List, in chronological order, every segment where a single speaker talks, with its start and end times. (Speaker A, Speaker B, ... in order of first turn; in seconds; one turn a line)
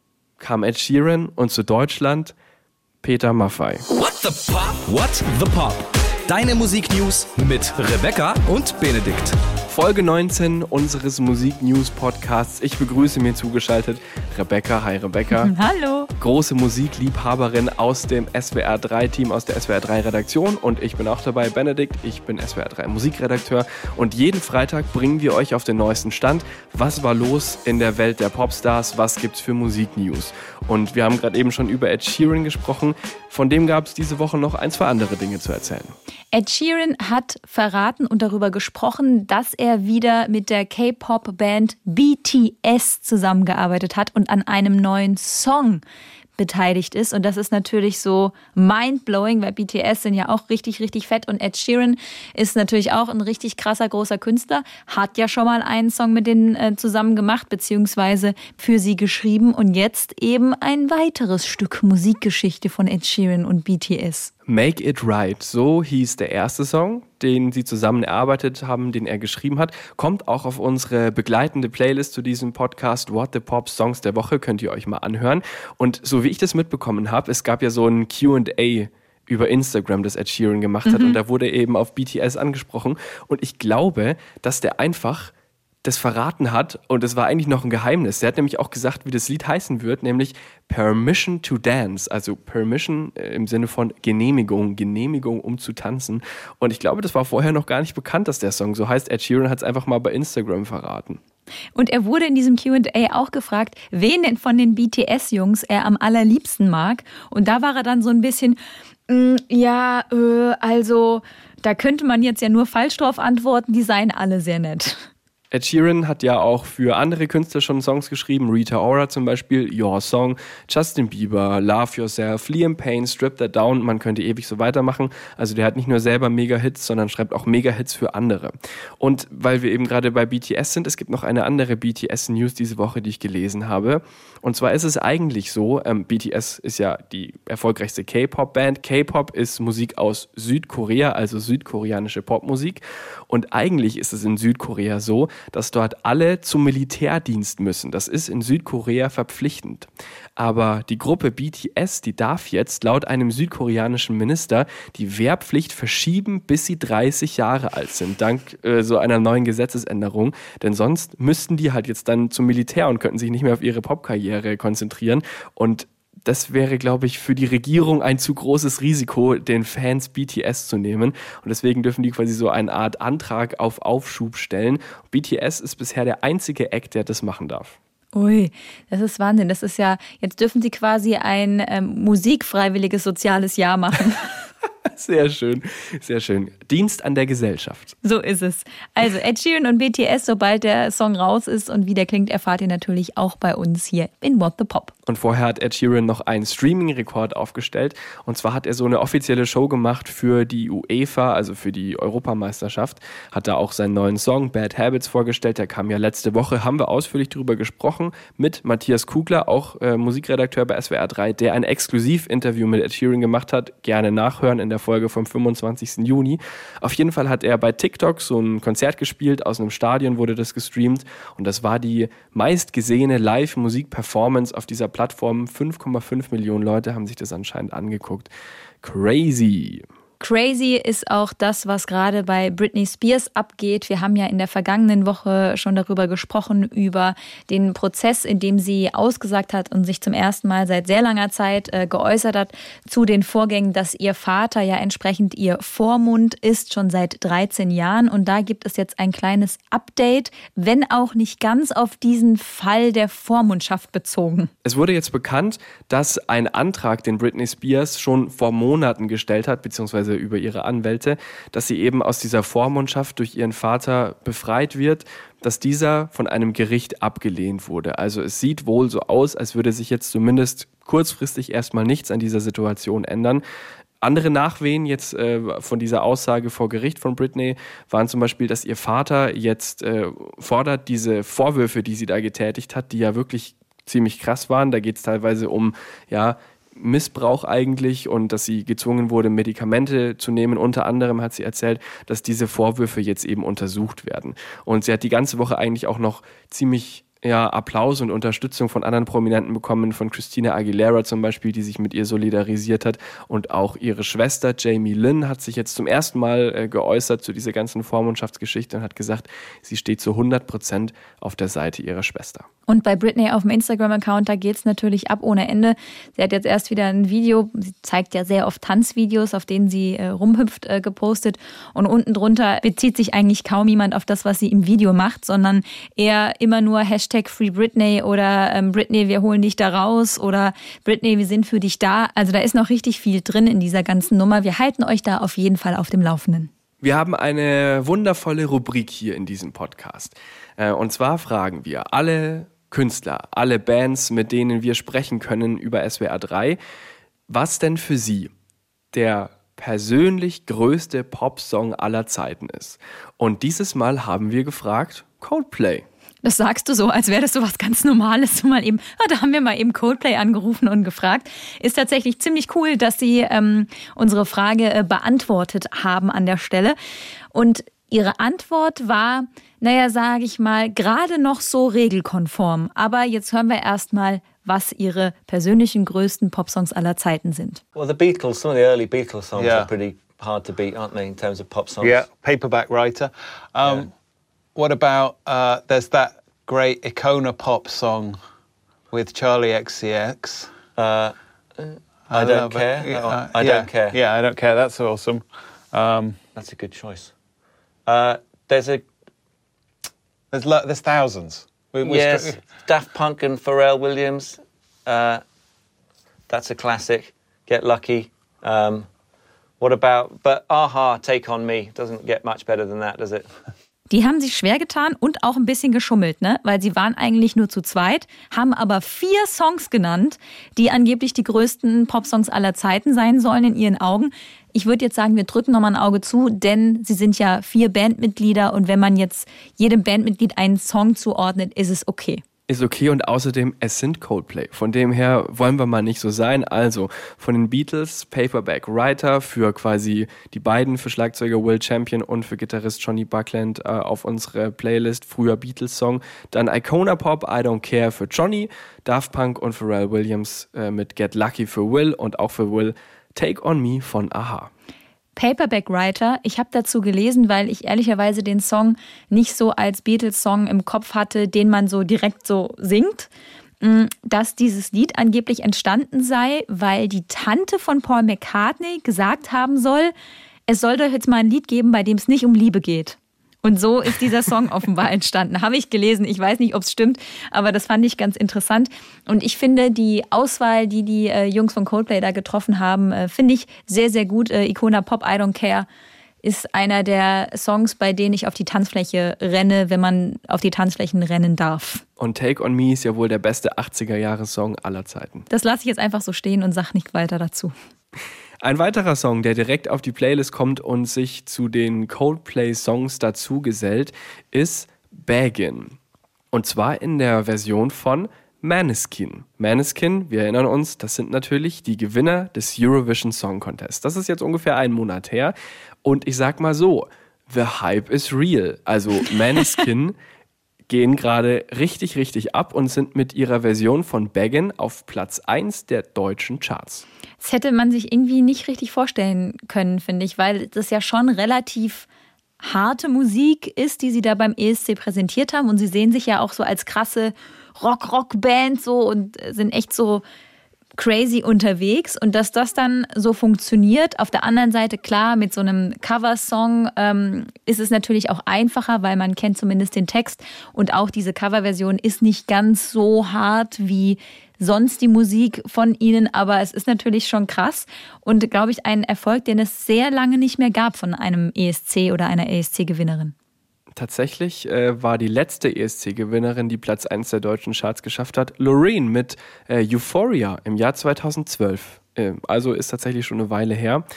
Speaker A: 0.4-2.4
Speaker A: 3.0-3.8
Speaker B: 3.9-9.4
Speaker A: 9.7-15.5
Speaker C: 15.3-16.1
Speaker A: 16.2-35.9
Speaker C: 36.3-45.8
Speaker C: 46.4-64.3
Speaker A: 64.5-85.3
Speaker C: 80.8-81.2
Speaker A: 85.8-101.2
Speaker C: 101.8-115.1
Speaker A: 115.5-177.8
Speaker C: 178.1-184.3
Speaker A: 184.9-187.9
Speaker C: 188.0-194.9
Speaker A: 195.1-228.3
Speaker A: 228.8-229.8
Speaker C: 230.2-254.5
Speaker A: 254.6-273.4
Speaker A: 274.0-312.5
Speaker C: 312.7-336.5
Speaker A: 336.8-346.6
Speaker A: 347.3-348.3
Speaker A: 348.9-355.9
Speaker C: 356.2-366.8
Speaker C: 367.3-377.6
Speaker D: 377.8-382.0
Speaker E: 379.4-379.7
Speaker E: 381.8-383.9
Speaker E: 384.6-388.2
Speaker E: 388.9-390.6
Speaker D: 390.8-394.0
Speaker E: 392.1-396.2
Speaker D: 396.4-397.1
Speaker D: 397.9-398.9
Speaker E: 400.3-402.5
Speaker D: 401.8-405.2
Speaker D: 406.3-408.9
Speaker D: 409.6-413.3
Speaker C: 413.9-432.2
Speaker A: 432.5-454.5
Speaker C: 455.2-463.1
Speaker C: 463.6-469.9
Speaker C: 470.5-485.7
Speaker C: 486.2-491.8
Speaker A: 492.0-495.3
Speaker C: 495.3-497.5
Speaker A: 498.4-505.8
Speaker A: 506.3-520.0
Speaker A: 520.7-526.9
Speaker C: 527.2-531.9
Speaker C: 532.4-540.0
Speaker C: 540.8-563.1
Speaker A: 563.8-573.8